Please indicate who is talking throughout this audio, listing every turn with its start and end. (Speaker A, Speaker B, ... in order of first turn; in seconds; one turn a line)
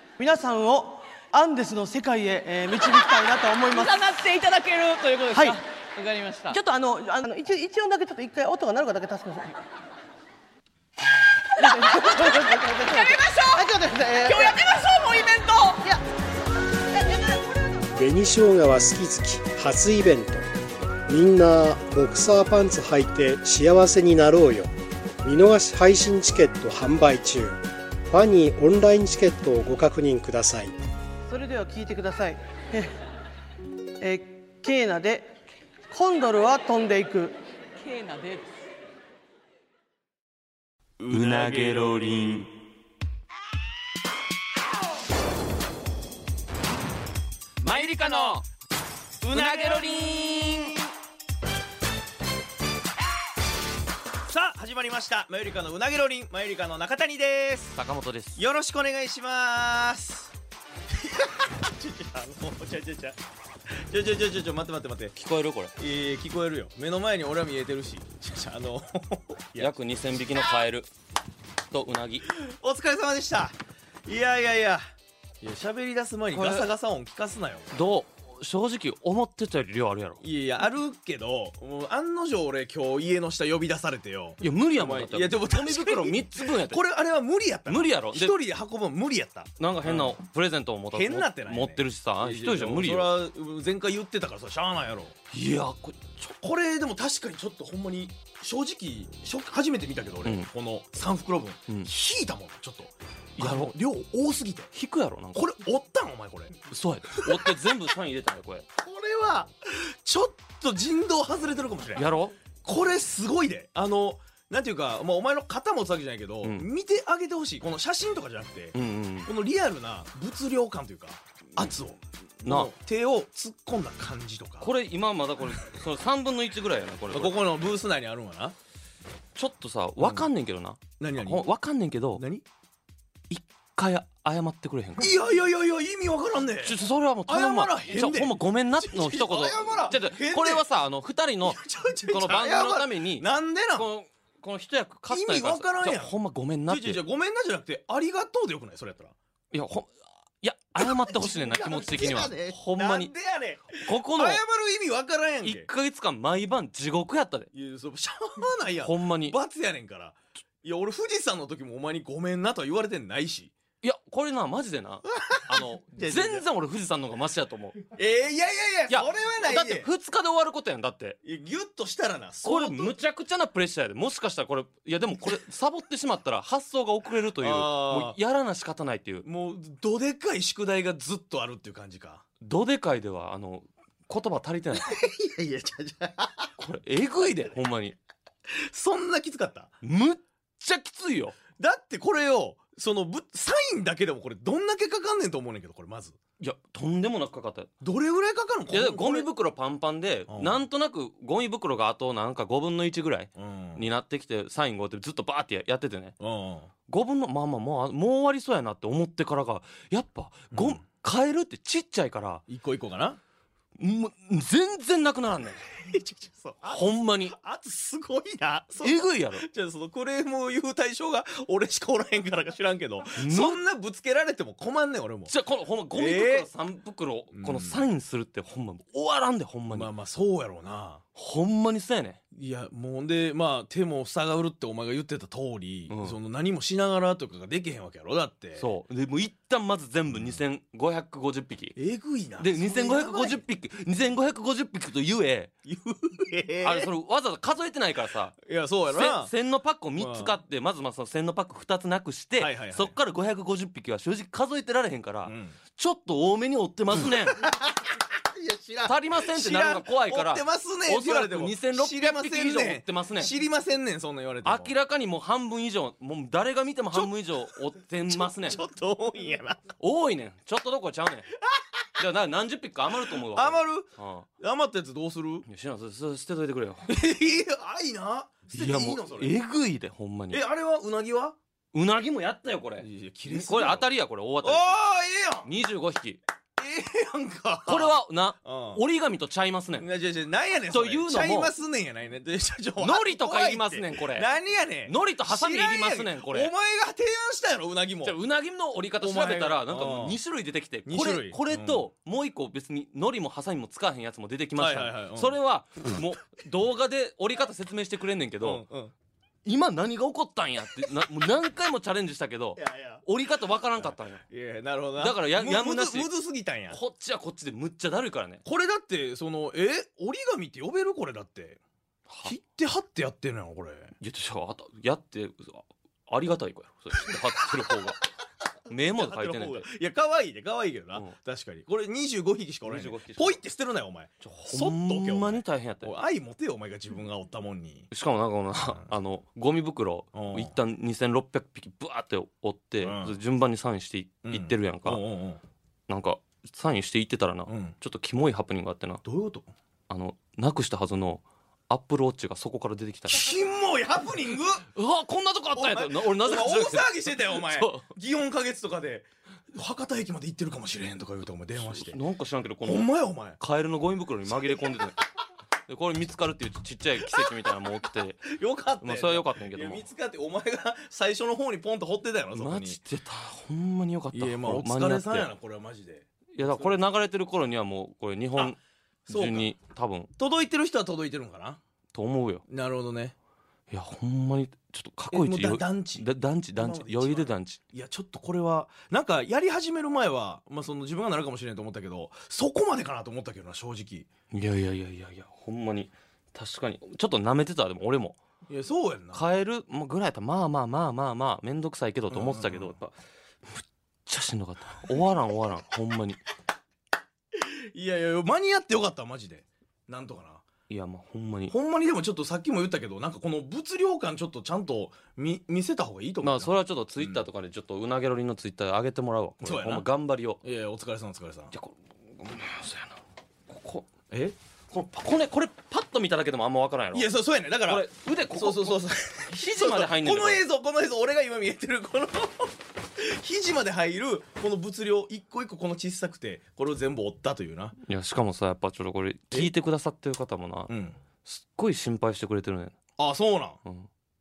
Speaker A: 0.2-4.1
Speaker B: 3.6-6.6
Speaker A: 5.3-5.6
Speaker A: 6.5-9.6
Speaker A: 11.6-14.7
Speaker B: 11.6-15.8
Speaker A: 16.9-17.4
Speaker C: 17.9-20.4
Speaker C: 21.1-24.7
Speaker C: 25.2-30.7
Speaker A: 31.2-32.9
Speaker A: 34.0-35.3
Speaker A: 35.9-37.4
Speaker B: 37.8-38.5
Speaker D: 41.0-42.3
Speaker E: 41.1-42.5
Speaker D: 47.6-48.4
Speaker E: 47.6-48.4
Speaker D: 49.2-50.8
Speaker E: 49.2-50.7
Speaker D: 54.3-57.8
Speaker E: 57.8-58.4
Speaker D: 58.4-60.3
Speaker D: 61.0-63.2
Speaker D: 63.7-65.1
Speaker E: 65.1-65.7
Speaker D: 65.8-69.7
Speaker E: 69.6-70.9
Speaker E: 71.7-72.3
Speaker D: 72.3-74.8
Speaker D: 75.4-77.7
Speaker E: 76.3-76.7
Speaker E: 77.7-80.2
Speaker D: 80.2-90.2
Speaker E: 84.4-86.8
Speaker E: 87.7-88.3
Speaker E: 89.6-93.2
Speaker D: 90.9-95.2
Speaker E: 95.3-96.2
Speaker D: 96.2-104.7
Speaker E: 100.2-100.5
Speaker E: 103.4-103.7
Speaker E: 104.7-105.5
Speaker D: 105.3-106.5
Speaker E: 106.7-108.7
Speaker D: 107.1-107.9
Speaker D: 108.8-124.7
Speaker E: 112.0-112.4
Speaker E: 116.4-116.7
Speaker E: 118.7-119.3
Speaker E: 122.4-122.7
Speaker E: 124.6-127.3
Speaker D: 127.1-128.5
Speaker E: 129.3-132.2
Speaker D: 130.0-130.3
Speaker D: 131.0-131.4
Speaker D: 132.1-132.4
Speaker E: 133.3-135.2
Speaker D: 135.0-140.7
Speaker E: 136.6-147.0
Speaker D: 141.4-143.9
Speaker D: 145.1-146.1
Speaker D: 146.7-149.1
Speaker E: 149.5-153.1
Speaker D: 150.8-155.7
Speaker E: 153.7-154.4
Speaker E: 155.4-157.5
Speaker D: 157.5-163.5
Speaker E: 158.8-159.4
Speaker E: 163.8-167.9
Speaker D: 165.2-166.5
Speaker D: 167.9-169.9
Speaker E: 168.9-171.2
Speaker D: 171.2-172.9
Speaker E: 172.4-179.3
Speaker D: 177.4-178.2
Speaker D: 179.2-182.2
Speaker E: 182.4-185.0
Speaker D: 184.8-186.5
Speaker E: 186.6-188.0
Speaker D: 188.5-189.7
Speaker E: 189.8-191.4
Speaker D: 191.6-196.2
Speaker E: 196.4-197.7
Speaker D: 197.8-199.3
Speaker E: 198.7-206.2
Speaker D: 200.3-200.7
Speaker D: 203.3-203.8
Speaker D: 206.2-206.7
Speaker E: 206.9-212.4
Speaker D: 210.5-210.8
Speaker D: 212.5-213.2
Speaker E: 213.8-215.6
Speaker D: 215.8-225.3
Speaker E: 216.7-217.3
Speaker E: 218.8-219.4
Speaker E: 223.2-223.6
Speaker E: 225.3-229.9
Speaker D: 225.9-226.5
Speaker D: 227.3-227.8
Speaker D: 229.7-231.0
Speaker E: 231.1-232.2
Speaker D: 232.3-238.7
Speaker E: 235.9-236.2
Speaker E: 238.6-241.8
Speaker D: 241.8-243.4
Speaker E: 242.4-245.5
Speaker D: 245.6-246.9
Speaker E: 246.6-257.5
Speaker D: 248.4-249.3
Speaker D: 250.0-250.3
Speaker D: 252.4-252.9
Speaker D: 255.2-255.6
Speaker D: 256.9-264.7
Speaker E: 258.8-263.3
Speaker E: 264.4-268.6
Speaker D: 268.1-269.7
Speaker E: 269.8-271.4
Speaker D: 271.4-271.8
Speaker E: 271.9-274.2
Speaker D: 273.1-275.4
Speaker E: 275.4-276.9
Speaker D: 276.9-279.3
Speaker E: 278.5-280.4
Speaker D: 280.3-281.4
Speaker E: 281.7-284.7
Speaker D: 282.8-283.9
Speaker D: 284.4-285.5
Speaker E: 285.4-286.2
Speaker D: 286.6-288.8
Speaker E: 287.7-289.9
Speaker D: 289.8-298.2
Speaker E: 290.7-291.5
Speaker E: 292.8-294.3
Speaker E: 294.8-296.5
Speaker E: 298.0-308.6
Speaker D: 299.0-300.2
Speaker D: 300.9-301.8
Speaker D: 304.6-305.4
Speaker D: 308.4-308.9
Speaker E: 309.4-314.2
Speaker D: 312.6-313.0
Speaker D: 313.8-316.8
Speaker E: 315.0-316.1
Speaker E: 316.7-318.4
Speaker D: 318.4-321.6
Speaker E: 322.1-322.3
Speaker D: 322.2-323.9
Speaker E: 324.0-328.0
Speaker E: 328.7-329.7
Speaker D: 328.7-337.9
Speaker E: 332.6-333.4
Speaker E: 334.2-335.9
Speaker E: 337.9-345.0
Speaker D: 340.1-340.6
Speaker D: 342.8-343.2
Speaker D: 344.2-345.4
Speaker E: 345.9-349.0
Speaker D: 347.5-347.8
Speaker D: 349.0-349.5
Speaker E: 349.9-353.4
Speaker D: 353.1-354.7
Speaker E: 354.7-357.9
Speaker D: 355.5-362.0
Speaker E: 361.6-365.0
Speaker D: 362.6-363.4
Speaker D: 364.3-364.9
Speaker E: 365.7-369.9
Speaker D: 367.0-367.6
Speaker D: 368.2-372.8
Speaker E: 372.3-375.3
Speaker D: 374.1-376.8
Speaker E: 376.3-380.1
Speaker D: 379.1-379.5
Speaker D: 380.2-381.6
Speaker E: 381.9-382.4
Speaker D: 382.5-383.1
Speaker E: 383.7-387.6
Speaker D: 385.1-394.1
Speaker E: 394.3-398.2
Speaker D: 398.5-399.2
Speaker E: 399.1-402.9
Speaker D: 402.1-402.8
Speaker E: 403.4-406.2
Speaker D: 407.3-410.4
Speaker E: 410.7-411.5
Speaker D: 411.5-417.2
Speaker E: 416.2-420.4
Speaker D: 419.4-419.9
Speaker D: 420.4-421.5
Speaker E: 421.5-423.9
Speaker D: 424.1-424.4
Speaker E: 424.7-427.1
Speaker D: 426.9-437.7
Speaker E: 427.7-430.4
Speaker E: 437.8-440.7
Speaker D: 440.7-441.0
Speaker E: 441.2-442.8
Speaker D: 443.0-443.6